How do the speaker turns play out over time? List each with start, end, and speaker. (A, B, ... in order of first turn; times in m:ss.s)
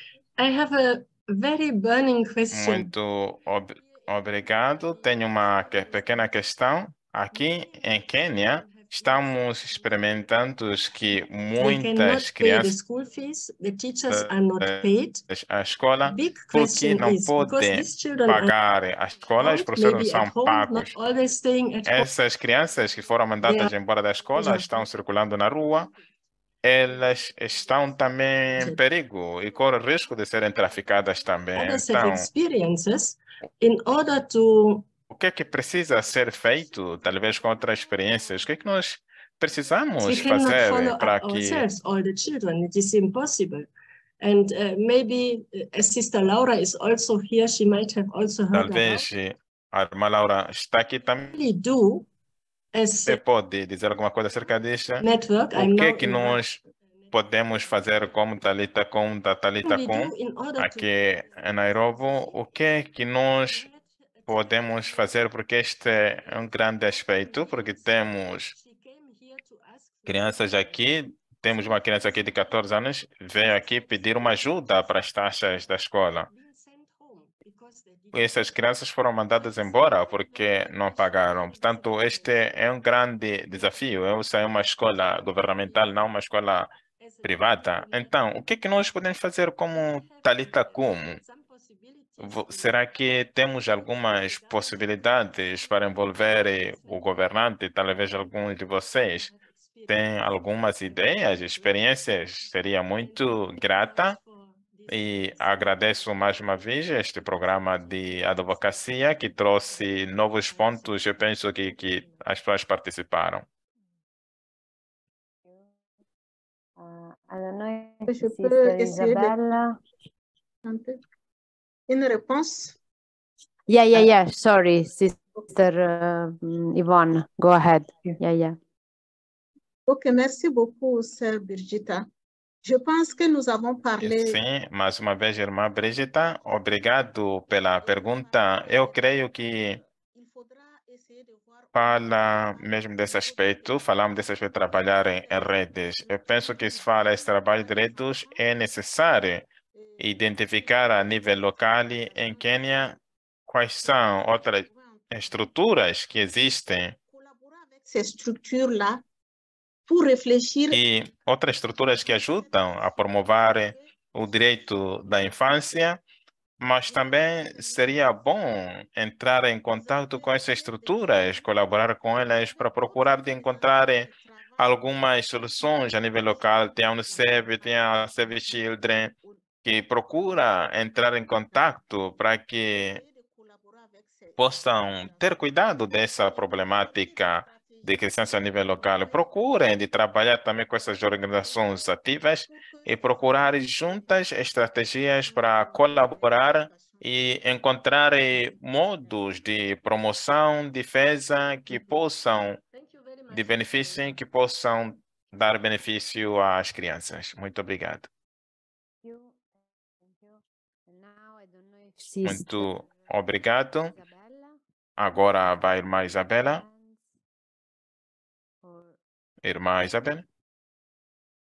0:00.4-0:02.9 A
0:02.5-0:12.8 B
0:11.6-0:15.3 A
0:14.1-0:21.0 B
0:16.0-0:18.6 A
0:19.4-0:22.1 A
0:21.8-0:25.9 B
0:23.4-0:23.7 A
0:24.4-0:24.7 A
0:26.6-0:32.3 B
0:28.6-0:28.8 A
0:31.6-0:34.9 A
0:35.1-0:41.7 B
0:40.0-0:49.1 A
0:48.5-0:51.4 B
0:51.3-0:52.1 A
0:52.7-0:53.2 A
0:53.0-1:03.7 B
0:55.0-0:56.4 A
0:59.6-1:00.9 A
1:04.3-1:08.6 B
1:08.6-1:09.7 A
1:10.0-1:16.3 B
1:18.1-1:26.7 B
1:27.2-1:31.2 B
1:32.2-1:39.3 B
1:39.9-1:44.2 B
1:44.9-1:53.4 B
1:56.8-1:59.8 C
1:58.1-1:59.4 D
2:00.6-2:01.0 D
2:01.9-2:02.8 D
2:03.7-2:08.6 C
2:09.9-2:12.1 D
2:12.6-2:14.4 D
2:14.0-2:19.8 B
2:21.7-2:29.5 B
2:30.0-2:37.0 B
2:37.8-2:39.0 D
2:39.9-2:40.8 D
2:40.7-2:46.0 B
2:46.6-3:03.0 B
3:04.4-3:22.6 B
3:23.3-3:28.1 B
3:29.0-3:29.3 C
3:30.9-3:32.7 C
3:32.2-3:34.0 B
3:34.0-3:34.6 C
3:35.0-3:36.6 B
3:38.6-3:38.9 C
3:39.4-3:40.2 B